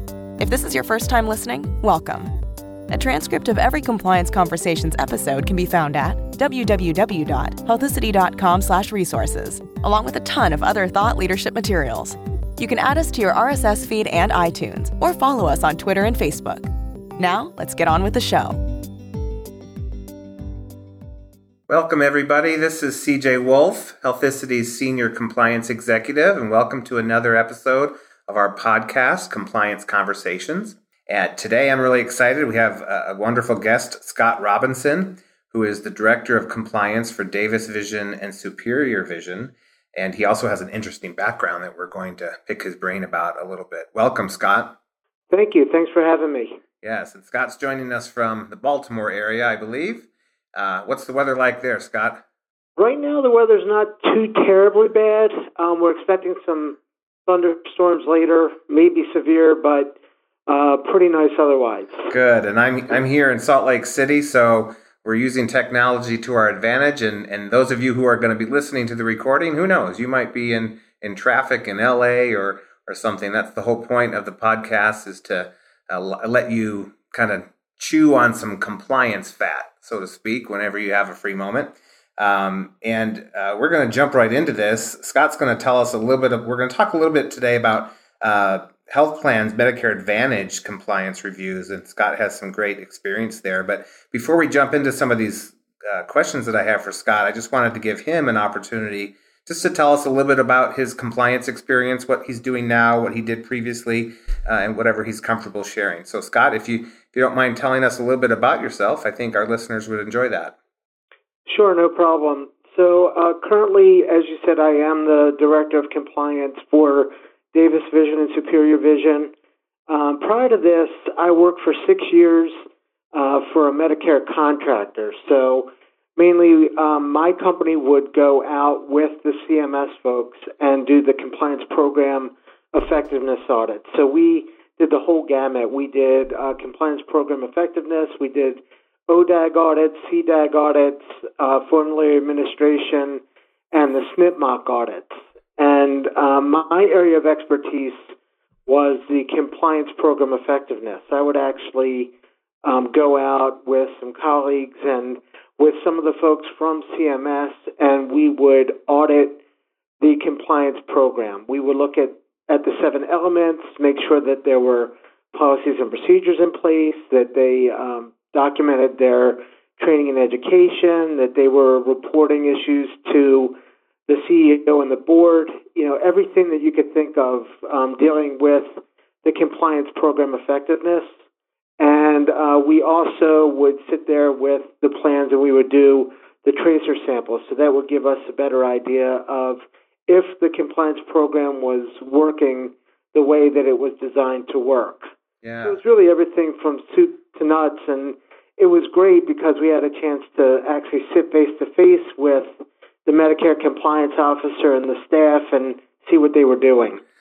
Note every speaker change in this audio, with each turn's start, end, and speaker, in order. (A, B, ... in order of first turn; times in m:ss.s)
0:00.4-0:02.3 A
0:02.9-0:18.6 A
0:21.7-0:44.8 B
0:45.3-0:46.6 C
0:46.8-0:52.2 B
0:52.8-1:00.0 C
1:00.5-1:02.0 C
1:02.1-1:50.5 B
1:51.4-1:59.3 C
1:59.9-2:02.5 C
2:03.1-2:23.2 C
2:23.7-2:28.1 C
2:28.6-2:32.1 C
2:32.6-2:39.4 C
2:40.0-2:53.5 C
2:54.1-3:01.1 C
3:01.8-3:15.1 C
3:15.4-3:15.8 B
3:15.6-3:27.0 C